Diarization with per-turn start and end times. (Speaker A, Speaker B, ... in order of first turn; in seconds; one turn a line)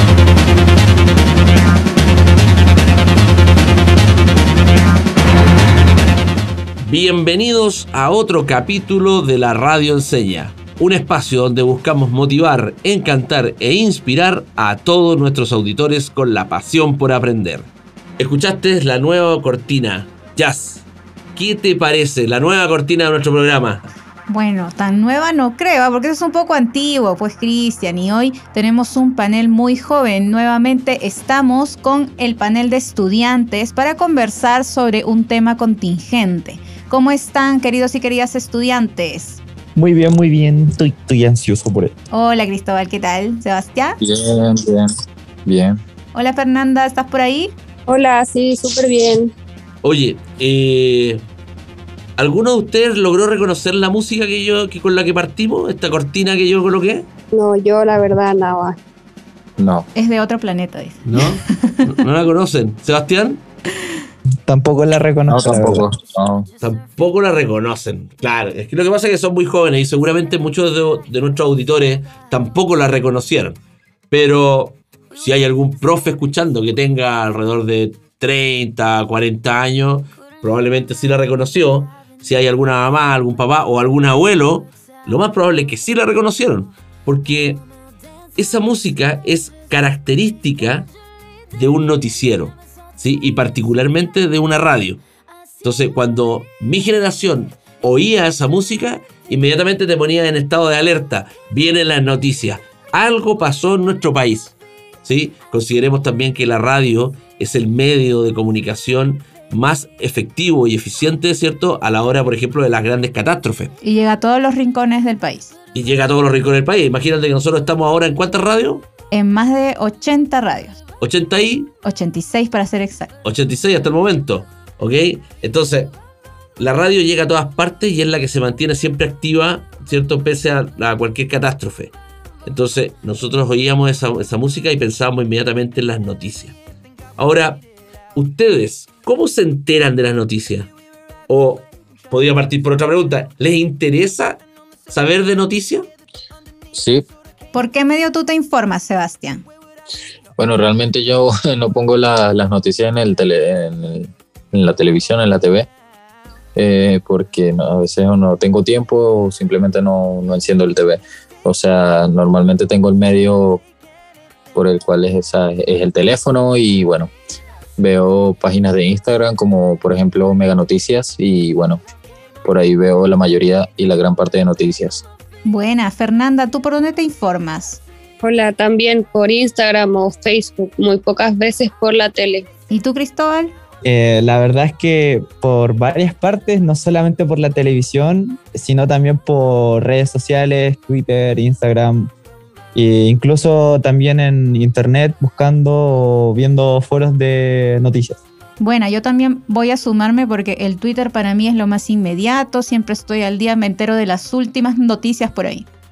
Speaker A: 6.8-23.9
Speaker B: 24.3-39.4
Speaker C: 39.8-42.0
Speaker B: 42.1-44.0
Speaker D: 44.0-44.9
Speaker D: 45.5-45.8
Speaker B: 46.1-47.5
Speaker E: 47.9-49.3
Speaker A: 49.8-51.2
Speaker A: 52.2-57.1
Speaker E: 57.3-58.8
Speaker D: 59.6-59.9
Speaker B: 60.0-61.9
Speaker A: 61.0-63.4
Speaker C: 64.5-65.9
Speaker D: 65.3-66.5
Speaker A: 66.6-73.6
Speaker A: 74.1-87.7
Speaker A: 88.4-90.9
Speaker A: 91.5-95.0
Speaker A: 95.6-113.7
Speaker B: 113.8-115.5
Speaker A: 115.7-118.9
Speaker B: 119.1-120.8
Speaker A: 121.0-121.7
Speaker B: 121.8-123.1
Speaker A: 123.2-126.0
Speaker A: 126.6-131.9
Speaker A: 132.4-136.6
Speaker A: 137.2-137.6
Speaker A: 138.2-140.7
Speaker A: 141.3-145.9
Speaker D: 146.7-147.1
Speaker B: 147.5-149.4
Speaker D: 150.4-155.7
Speaker D: 156.6-163.6
Speaker D: 164.5-167.1
Speaker D: 167.8-171.8
Speaker D: 172.4-175.0
Speaker B: 175.4-177.8
Speaker E: 178.2-182.5
Speaker B: 182.7-183.5
Speaker C: 183.8-192.1
Speaker C: 192.7-198.2
Speaker B: 198.6-205.7